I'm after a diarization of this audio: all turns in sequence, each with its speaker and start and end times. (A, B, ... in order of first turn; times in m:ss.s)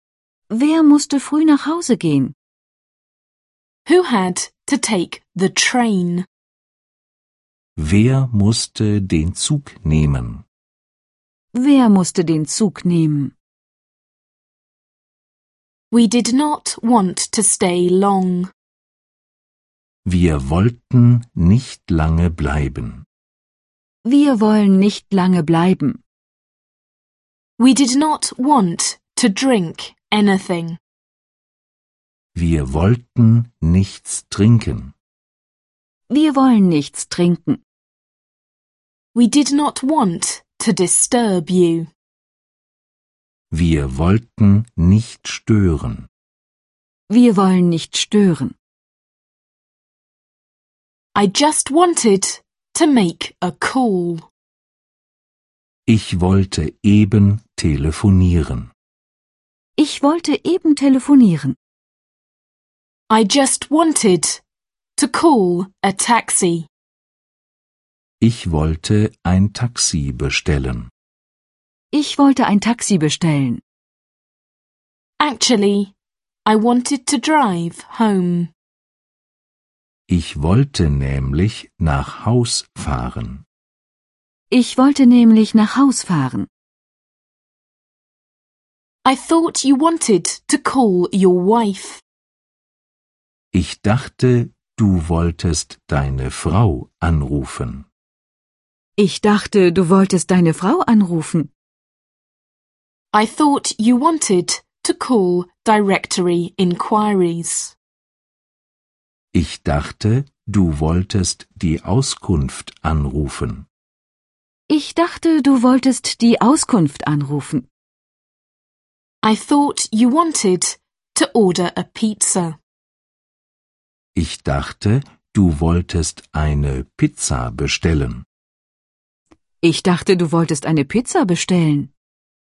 0:00.5-0:02.3 A
0:03.8-0:06.3 B
0:07.8-0:10.4 C
0:11.5-0:13.3 A
0:15.9-0:18.5 B
0:20.1-0:23.0 C
0:24.0-0:26.0 A
0:27.6-0:30.8 B
0:32.4-0:34.9 C
0:36.1-0:37.6 A
0:39.2-0:41.9 B
0:43.5-0:46.1 C
0:47.1-0:48.5 A
0:51.2-0:54.3 B
0:55.9-0:58.7 C
0:59.8-1:01.6 A
1:03.1-1:04.4 B
1:05.0-1:06.7 B
1:08.2-1:10.9 C
1:11.9-1:13.6 A
1:15.2-1:15.9 B
1:16.5-1:18.5 B
1:20.1-1:23.4 C
1:24.5-1:26.5 A
1:29.0-1:32.0 B
1:33.5-1:37.9 C
1:39.0-1:41.5 A
1:43.1-1:47.8 B
1:49.3-1:53.7 C
1:54.7-1:57.7 A
1:59.2-2:02.6 B
2:04.2-2:08.2 C
2:09.6-2:11.9 A